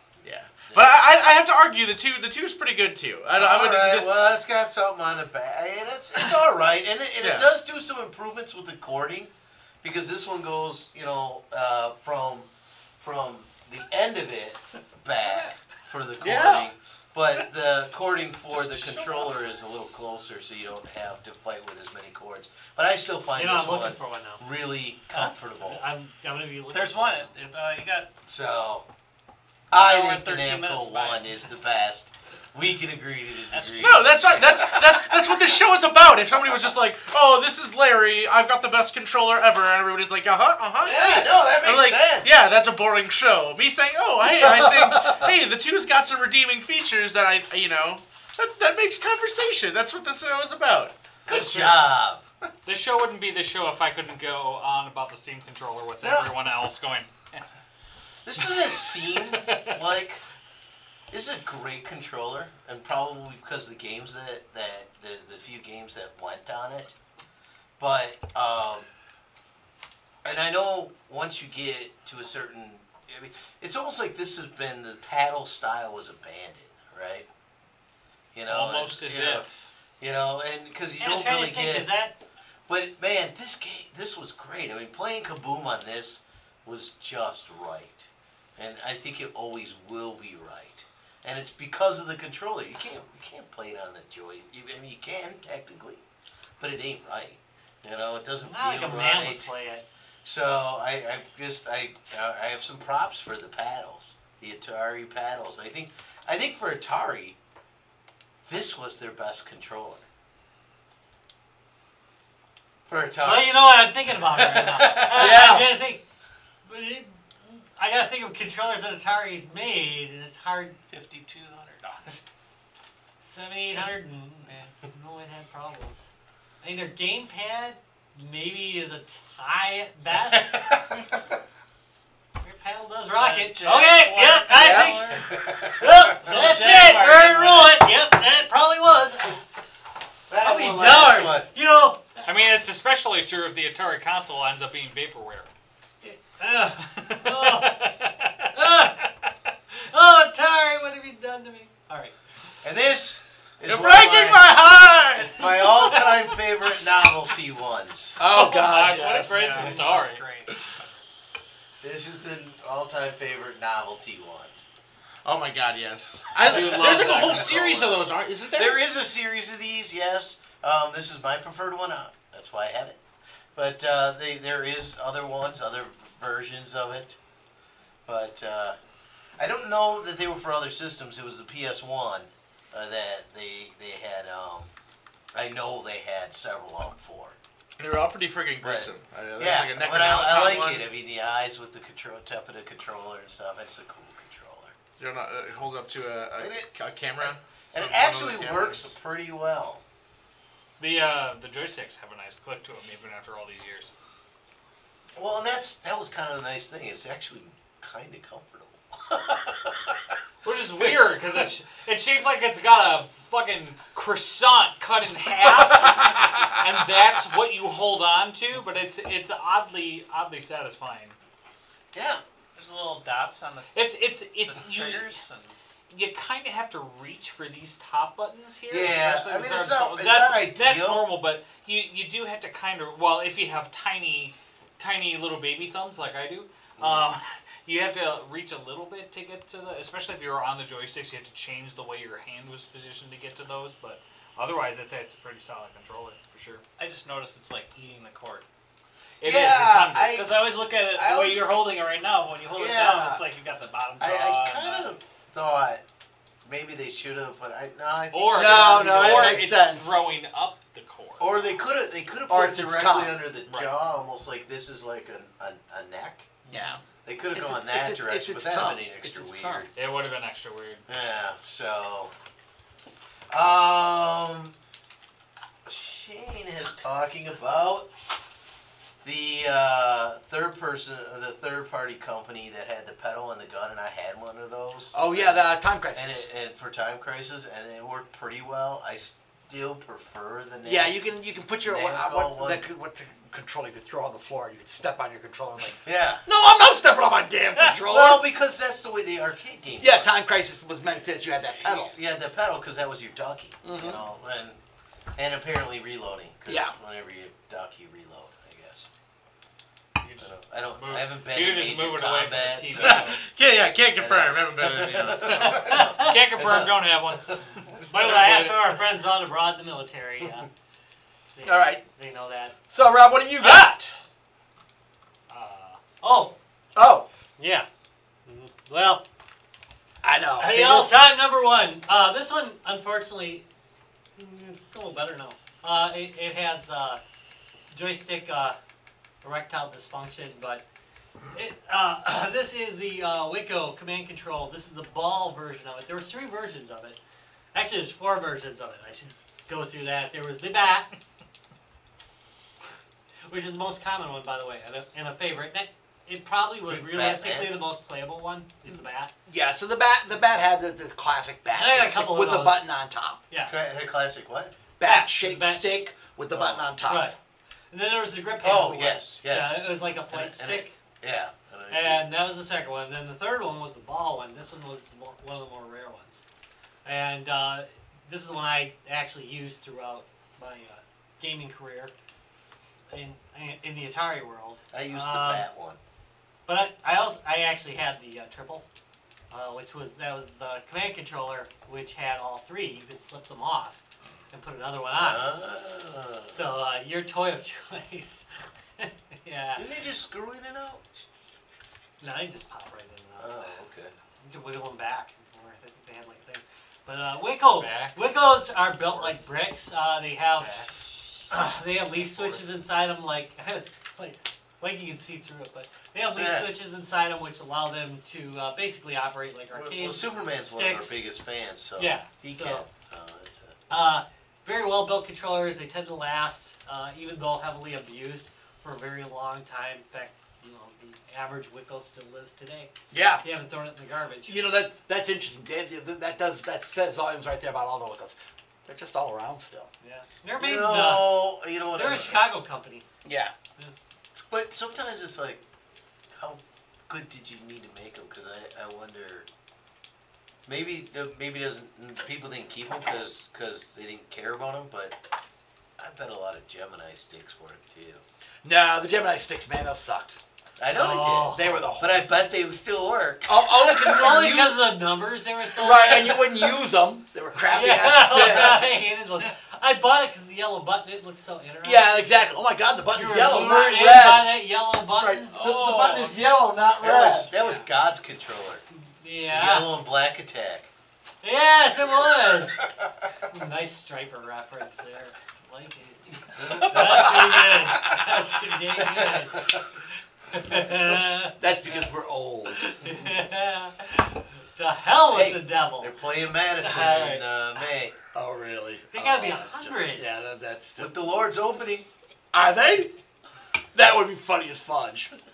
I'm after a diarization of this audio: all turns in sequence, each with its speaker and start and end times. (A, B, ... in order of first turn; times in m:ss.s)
0:00.2-0:04.1 A
0:00.6-0:01.0 B
0:03.3-0:25.8 B
0:07.2-0:07.5 A
0:15.2-0:15.6 C
0:16.2-0:16.6 D
0:16.3-0:16.6 A
0:18.7-0:19.3 C
0:23.3-0:24.5 E
0:25.1-0:27.3 E
0:26.7-0:28.1 C
0:28.2-0:28.8 B
0:29.7-0:31.3 C
0:29.7-0:35.0 B
0:33.5-0:34.2 C
0:33.8-0:51.8 A
0:40.8-0:42.3 B
0:44.4-0:44.8 D
0:51.3-0:52.2 B
0:52.6-0:57.4 F
0:56.0-0:56.3 B
0:58.2-1:00.2 B
0:58.9-0:59.8 F
1:01.1-1:06.9 B
1:07.8-1:08.9 B
1:10.2-1:17.2 B
1:18.3-1:19.5 B
1:18.5-1:19.7 F
1:20.0-1:21.9 B
1:21.0-1:22.2 E
1:22.7-1:36.0 B
1:36.6-1:39.5 B
1:38.4-1:39.8 E
1:40.2-1:47.4 B
1:48.4-1:50.0 B
1:52.9-1:55.5 B
1:53.2-1:56.0 E
1:55.1-1:55.8 D
1:56.6-2:00.8 E
2:00.9-2:02.2 C
2:03.2-2:06.0 E
2:04.4-2:04.8 C
2:06.6-2:10.7 E
2:10.6-2:11.0 B
2:12.4-2:19.4 E
2:13.1-2:15.2 C
2:14.6-2:14.9 D
2:15.1-2:16.1 B
2:16.2-2:17.8 C
2:20.3-2:21.5 B
2:20.4-2:22.3 E
2:22.2-2:25.5 F
2:26.0-2:27.8 E
2:27.0-2:28.5 F
2:28.5-2:29.1 E
2:29.8-2:32.1 E
2:32.6-2:38.2 B
2:33.6-2:35.9 A
2:38.2-2:39.8 D
2:38.2-2:40.2 F
2:39.0-2:40.6 C
2:39.3-2:39.6 E
2:41.8-2:44.6 B
2:45.2-2:48.8 A
2:46.4-2:47.7 F
2:46.5-2:53.0 B
2:53.5-2:57.2 B
2:58.0-2:58.8 B
2:59.4-3:04.7 B
3:05.3-3:07.4 B
3:07.8-3:10.8 A
3:08.6-3:14.8 B
3:15.0-3:18.9 A
3:16.4-3:19.8 B
3:20.8-3:23.9 F
3:25.2-3:30.0 B
3:30.4-3:41.2 F
3:41.9-3:42.2 B
3:42.5-3:43.8 C
3:43.7-3:45.2 F
3:44.4-3:45.6 C
3:45.9-4:06.6 F
3:48.7-3:51.1 B
3:56.8-3:57.1 B
4:06.8-4:08.4 C
4:09.2-4:10.2 F
4:09.2-4:11.5 B
4:10.0-4:14.9 C
4:12.6-4:13.2 B
4:14.0-4:15.8 B
4:16.4-4:19.5 B
4:18.1-4:21.4 F
4:18.3-4:20.0 D
4:21.2-4:26.3 B
4:22.3-4:23.2 D
4:26.5-4:26.8 D
4:27.0-4:29.7 B
4:27.3-4:29.7 D
4:29.8-4:30.8 F
4:30.9-4:32.1 B
4:33.3-4:34.5 B
4:35.6-4:37.9 B
4:39.0-4:51.0 B
4:44.9-4:46.2 D
4:50.6-4:58.2 D
4:51.6-4:52.6 B
4:55.8-4:56.2 B
4:57.8-5:00.1 B
4:59.8-5:01.9 D
5:00.8-5:04.6 B
5:03.6-5:04.0 D
5:05.2-5:08.8 B
5:06.5-5:06.7 D
5:10.0-5:13.2 F
5:10.2-5:13.1 B
5:12.8-5:15.8 A
5:14.0-5:17.4 B
5:15.3-5:17.7 F
5:15.7-5:16.1 E
5:17.8-5:20.5 E
5:18.0-5:18.6 A
5:21.4-5:22.6 E
5:21.4-5:21.8 D
5:22.7-5:23.9 D
5:23.4-5:23.7 E
5:25.3-5:26.3 E
5:26.7-5:27.0 D
5:27.4-5:27.7 E
5:28.2-5:29.0 E
5:30.0-5:31.0 D
5:30.4-5:33.4 E
5:34.2-5:37.0 E
5:37.7-5:38.6 E
5:39.2-5:40.6 E
5:41.3-5:47.0 E
5:47.5-5:50.9 E
5:53.3-5:59.1 E
5:56.7-5:57.6 B
5:59.3-6:03.2 D
6:01.5-6:02.7 E
6:03.4-6:04.5 B
6:04.8-6:07.1 D
6:04.8-6:05.9 E
6:06.3-6:06.7 B
6:06.8-6:07.2 E
6:07.7-6:10.7 E
6:08.4-6:12.1 B
6:11.7-6:16.2 E
6:16.8-6:21.9 E
6:22.9-6:25.4 E
6:24.7-6:25.8 B
6:26.5-6:28.6 E
6:29.3-6:33.8 E
6:34.3-6:35.2 E
6:35.0-6:36.4 B
6:36.3-6:39.6 E
6:39.6-6:41.0 B
6:42.0-6:43.6 E
6:43.2-6:43.9 B
6:44.2-7:01.0 E
6:47.4-6:47.9 F
6:52.0-6:52.4 B
6:56.1-6:56.5 B
6:59.5-7:03.6 B
7:01.8-7:02.6 E
7:03.7-7:14.4 E
7:12.9-7:13.2 D
7:14.2-7:19.7 D
7:19.8-7:22.8 E
7:20.4-7:22.2 B
7:23.0-7:23.3 D
7:24.3-7:25.4 B
7:26.1-7:29.3 B
7:30.4-7:35.0 B
7:35.8-7:38.0 B
7:38.4-7:40.2 D
7:40.6-7:43.9 B
7:40.7-7:41.6 E
7:41.3-7:42.0 D
7:43.2-7:44.8 D
7:43.6-7:46.6 E
7:45.6-7:49.0 D
7:47.4-7:52.2 E
7:51.6-7:57.3 D
7:52.9-7:55.3 E
7:55.3-7:56.2 C
7:56.8-7:58.6 B
7:57.4-7:57.7 C
7:59.0-7:59.7 E
7:59.3-8:00.7 B
8:01.2-8:02.6 E
8:02.3-8:02.9 B
8:03.3-8:09.6 E
8:06.4-8:07.4 B
8:08.8-8:09.5 B
8:10.3-8:11.4 E
8:11.4-8:12.8 D
8:12.6-8:16.0 E
8:15.1-8:17.9 B
8:16.6-8:17.2 E
8:18.1-8:20.9 D
8:18.9-8:20.0 E
8:20.8-8:21.9 B
8:22.3-8:22.9 D
8:23.7-8:25.1 D